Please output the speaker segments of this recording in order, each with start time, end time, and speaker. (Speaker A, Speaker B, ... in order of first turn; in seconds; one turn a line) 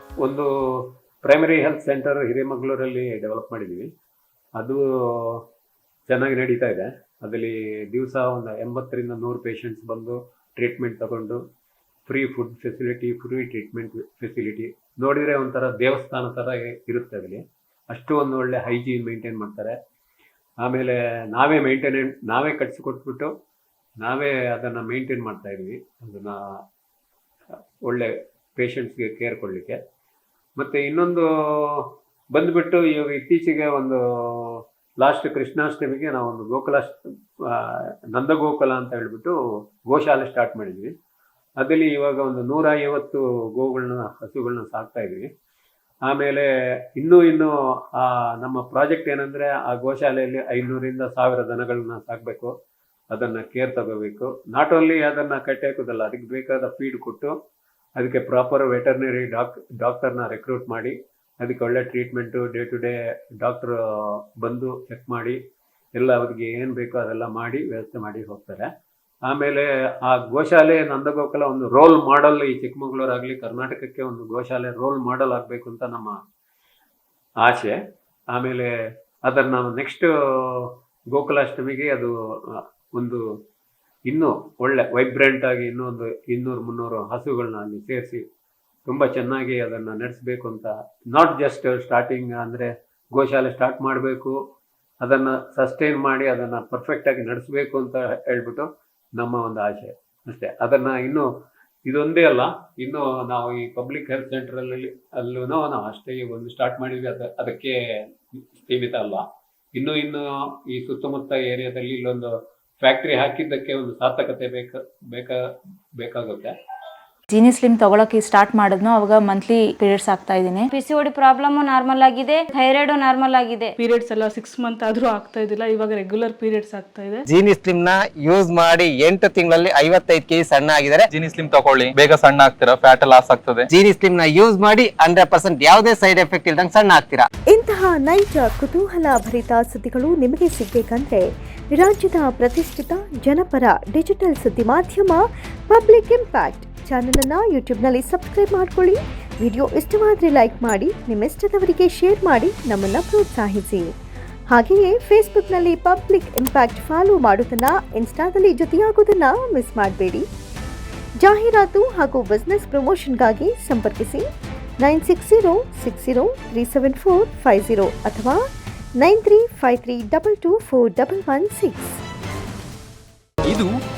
Speaker A: 0.2-3.9
Speaker A: 4.6-5.4
Speaker A: 6.1-11.4
Speaker A: 12.1-19.8
Speaker A: 20.6-23.3
Speaker A: 24.0-26.4
Speaker A: 27.8-29.8
Speaker A: 30.6-40.9
Speaker A: 41.6-45.3
Speaker A: 46.1-52.5
Speaker A: 53.1-57.3
Speaker A: 58.0-65.4
Speaker A: 65.9-68.7
Speaker A: 69.3-76.2
Speaker A: 77.4-77.8
Speaker A: 78.3-78.7
Speaker A: 79.3-83.2
Speaker A: 84.1-88.2
Speaker A: 88.9-94.4
Speaker A: 95.0-101.3
Speaker A: 101.9-107.8
Speaker A: 108.3-109.2
Speaker A: 109.7-115.4
Speaker A: 116.0-116.5
Speaker B: 117.3-120.7
Speaker C: 120.7-123.7
Speaker D: 123.8-127.2
Speaker E: 127.3-131.1
Speaker F: 131.1-133.7
Speaker E: 133.7-137.3
Speaker G: 137.5-153.9
Speaker G: 154.5-160.3
Speaker G: 161.2-164.2
Speaker G: 164.8-168.4
Speaker G: 169.0-172.0